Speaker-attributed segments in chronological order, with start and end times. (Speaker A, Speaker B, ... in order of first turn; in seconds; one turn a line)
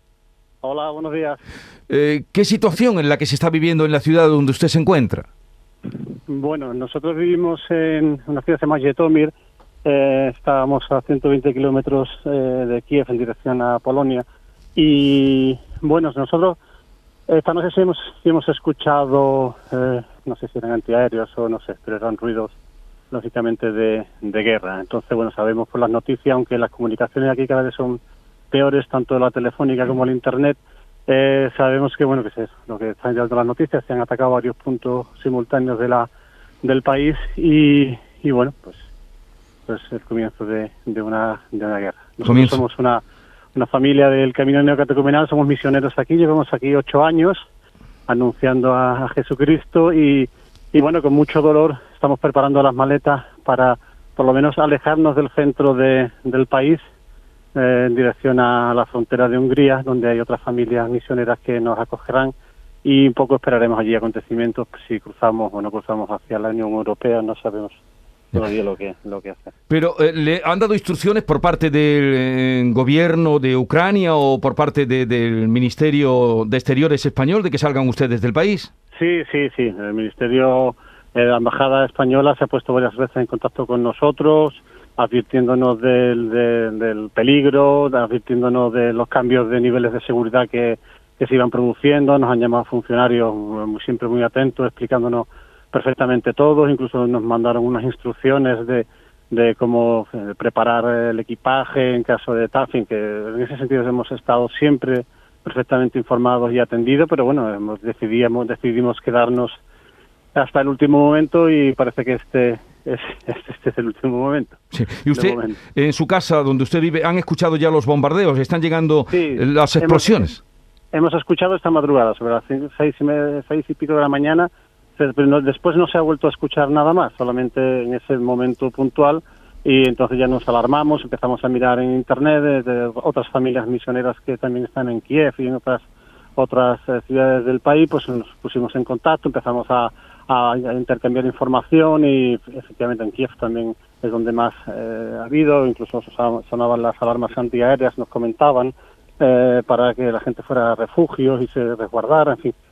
Speaker A: 0.6-1.4
Speaker B: 1.9-5.3
Speaker A: 6.0-9.3
Speaker A: 9.8-14.2
Speaker A: 14.8-16.6
Speaker A: 17.3-22.6
Speaker A: 23.1-28.0
Speaker A: 28.5-36.1
Speaker A: 36.6-38.8
Speaker A: 39.7-43.0
Speaker B: 42.2-42.6
Speaker A: 43.5-47.5
Speaker A: 48.1-56.8
Speaker A: 57.5-67.8
Speaker A: 68.3-69.5
Speaker B: 69.7-78.7
Speaker A: 79.0-109.6
Speaker A: 110.3-115.6
Speaker B: 114.7-120.4
Speaker A: 119.1-120.3
Speaker A: 120.9-135.8
Speaker A: 136.4-152.6